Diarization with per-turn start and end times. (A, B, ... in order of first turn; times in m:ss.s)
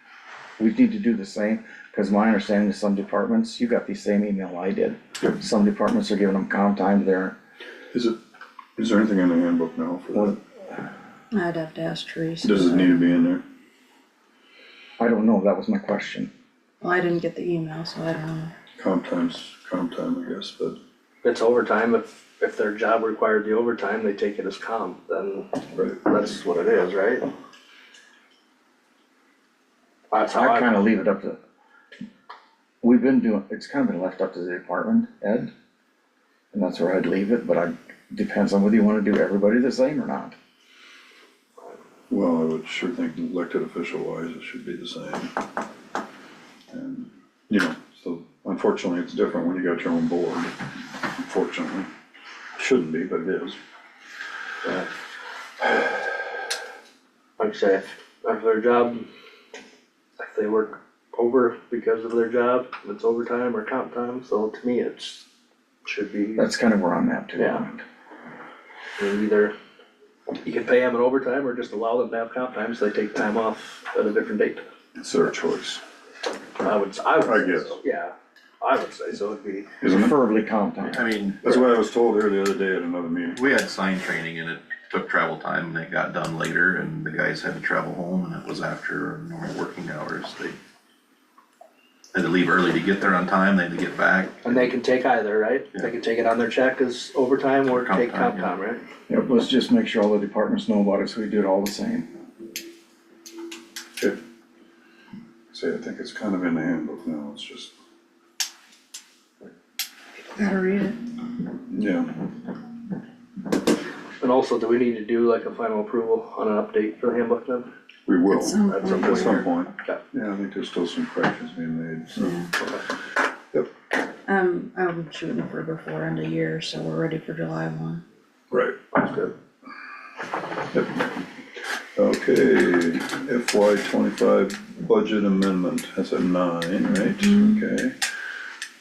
0:00.6-0:07.4 A
0:07.9-0:08.2 B
0:08.8-0:10.4 B
0:11.3-0:13.3 C
0:12.4-0:13.4 B
0:15.0-0:16.3 A
0:16.8-0:18.5 C
0:18.8-0:20.8 B
0:21.2-0:27.3 D
0:25.7-0:26.0 B
0:30.1-0:30.8 D
0:30.3-0:31.4 A
0:32.8-0:35.5 A
0:36.5-0:40.3 A
0:42.1-0:45.3 B
0:46.7-0:51.9 B
0:52.6-0:53.6 B
0:54.6-0:54.9 D
0:57.4-0:59.1 D
1:00.2-1:05.2 D
1:05.8-1:06.5 D
1:06.4-1:07.8 A
1:07.4-1:07.6 D
1:09.0-1:09.5 D
1:10.4-1:14.6 D
1:15.0-1:15.8 B
1:16.6-1:19.7 D
1:17.2-1:17.8 B
1:19.8-1:20.1 B
1:19.8-1:21.1 A
1:20.9-1:21.6 E
1:21.4-1:23.4 B
1:23.4-1:30.6 E
1:32.1-1:34.6 E
1:34.4-1:38.8 D
1:37.7-1:38.5 E
1:39.1-1:42.1 A
1:45.5-1:47.7 B
1:50.3-1:51.0 C
1:51.7-1:52.1 B
1:54.2-1:57.7 D
1:58.0-2:02.4 B
1:58.3-1:59.4 C
1:58.6-2:00.0 D
2:02.2-2:02.5 C
2:02.6-2:02.8 D
2:04.3-2:08.0 C
2:08.5-2:08.8 B
2:08.9-2:09.3 D
2:10.7-2:11.2 B
2:12.0-2:18.0 B